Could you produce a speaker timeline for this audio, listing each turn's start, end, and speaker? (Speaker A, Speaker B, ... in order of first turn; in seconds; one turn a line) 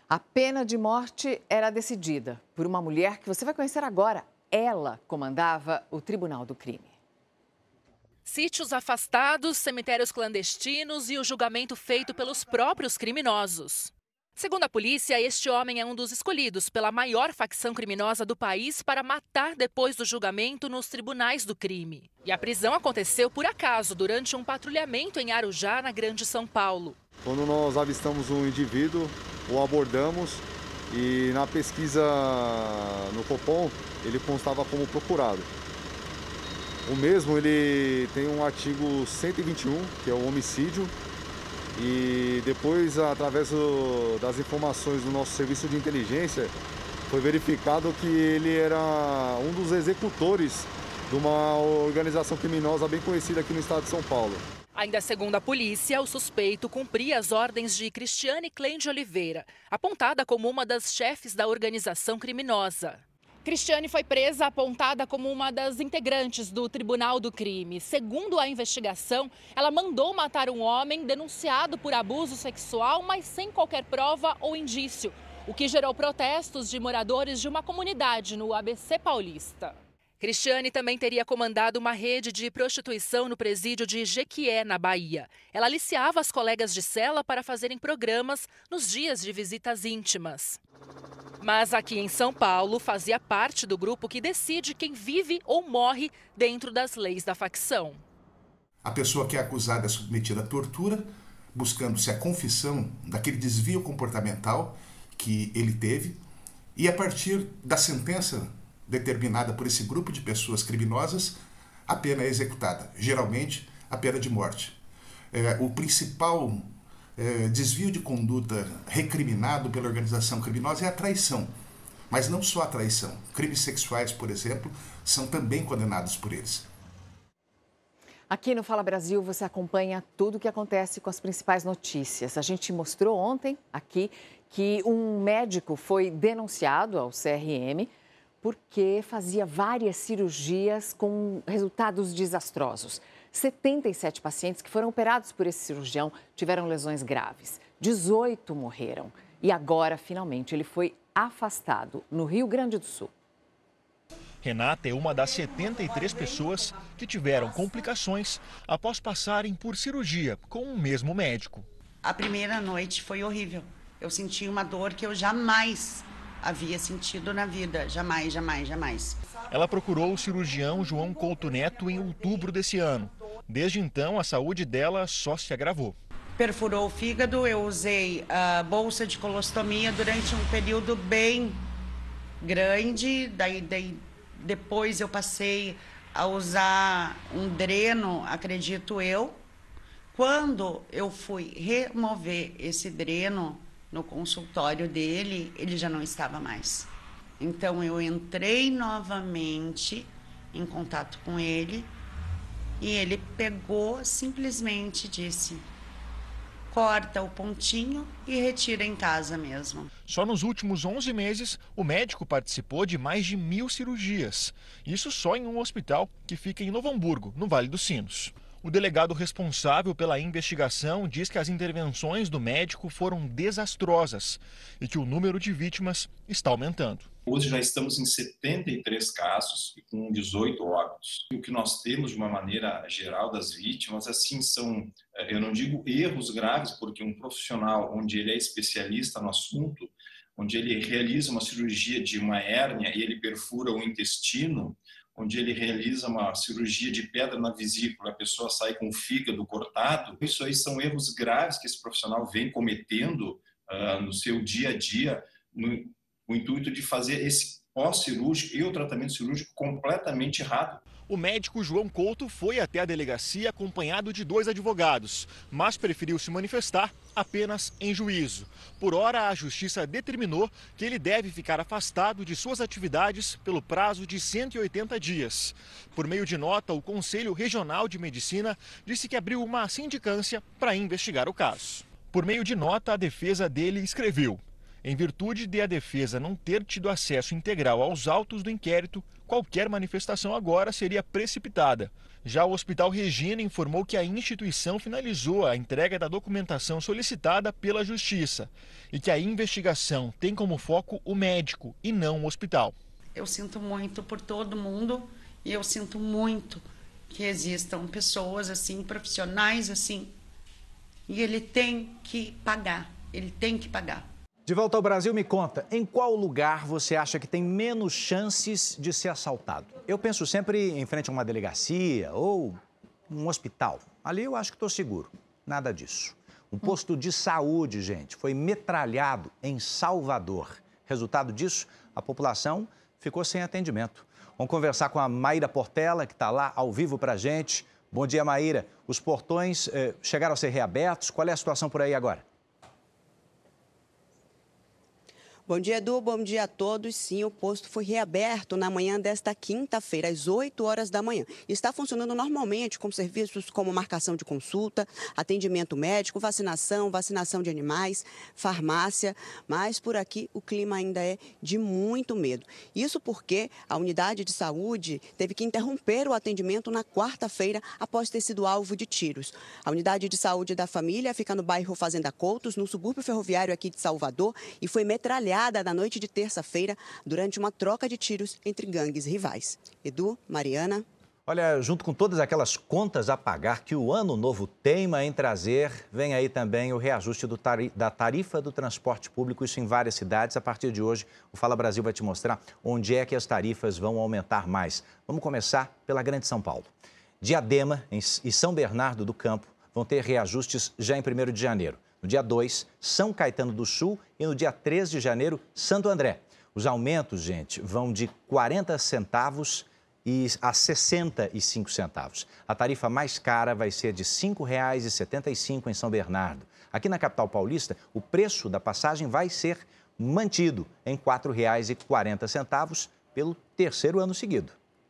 Speaker A: 0.1-6.9
Speaker B: 8.3-26.9
Speaker C: 27.2-35.5
Speaker C: 36.9-40.9
Speaker C: 41.8-46.5
Speaker C: 47.1-54.4
Speaker B: 54.7-90.6
Speaker B: 91.4-98.0
Speaker D: 98.8-106.2
Speaker D: 106.8-114.8
Speaker D: 115.3-121.5
Speaker D: 122.1-126.7
Speaker A: 128.3-137.9
Speaker A: 138.4-153.1
Speaker E: 154.4-161.7
Speaker F: 162.0-169.2
Speaker E: 169.5-175.9
Speaker F: 176.4-181.6
Speaker F: 182.4-189.4
Speaker F: 190.1-201.9
Speaker F: 202.8-205.6
Speaker F: 206.7-209.9
Speaker E: 210.0-227.1
Speaker G: 227.3-260.8
Speaker E: 261.0-302.8
Speaker F: 303.2-310.1
Speaker F: 311.1-314.1
Speaker H: 314.5-342.2
Speaker I: 345.5-380.9
Speaker H: 381.2-396.7
Speaker H: 397.2-424.6